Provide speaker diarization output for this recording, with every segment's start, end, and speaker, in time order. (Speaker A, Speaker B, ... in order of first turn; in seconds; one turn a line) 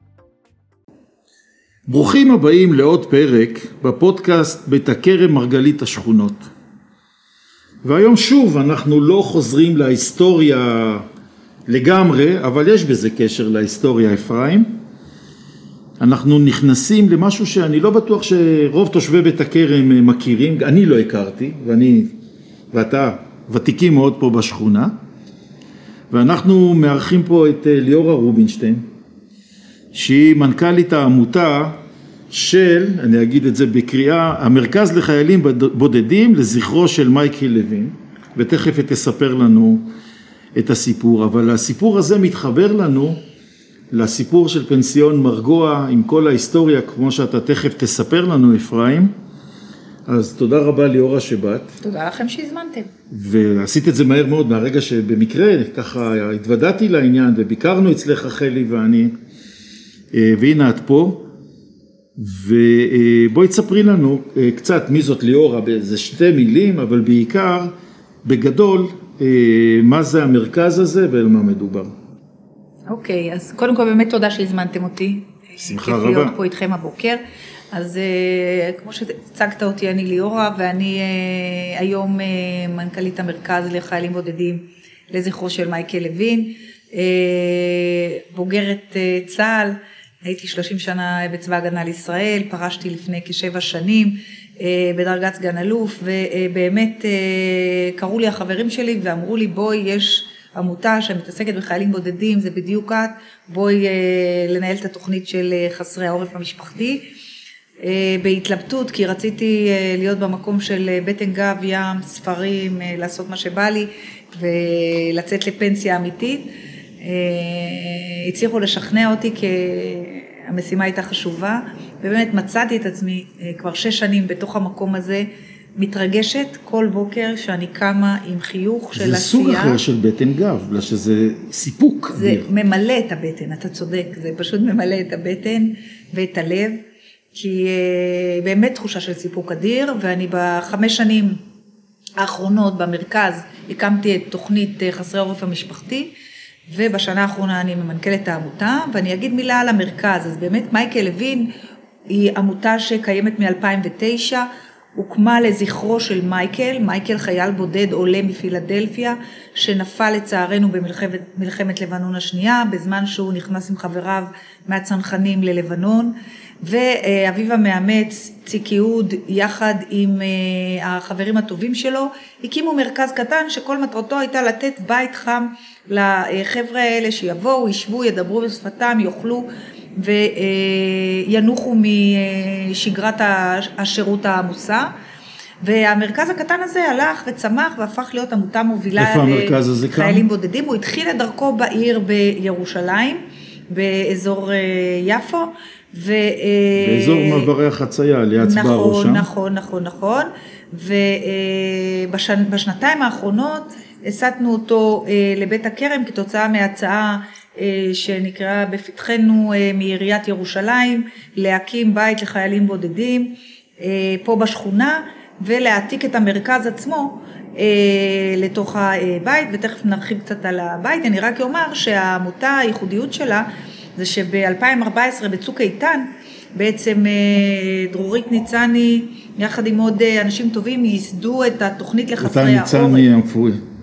Speaker A: 1.9-6.5
Speaker A: 7.8-11.1
Speaker A: 11.7-14.8
Speaker A: 16.0-22.1
Speaker A: 22.7-24.9
Speaker A: 26.1-28.8
Speaker A: 29.9-31.8
Speaker A: 32.3-39.9
Speaker A: 40.6-43.2
Speaker A: 43.9-49.1
Speaker A: 50.1-51.7
Speaker B: 51.8-52.9
Speaker A: 53.1-59.1
Speaker A: 60.1-61.3
Speaker A: 62.2-67.7
Speaker A: 68.2-71.9
Speaker B: 72.9-77.2
Speaker A: 75.6-76.3
Speaker B: 77.7-107.0
Speaker B: 107.8-116.5
Speaker B: 117.0-129.8
Speaker A: 128.9-132.5
Speaker B: 132.1-136.8
Speaker B: 137.3-141.4
Speaker B: 142.2-146.1
Speaker B: 146.7-151.5
Speaker B: 152.1-184.9
Speaker B: 185.6-197.5
Speaker A: 189.0-190.3
Speaker A: 196.8-199.3
Speaker B: 198.4-233.1
Speaker A: 232.2-233.6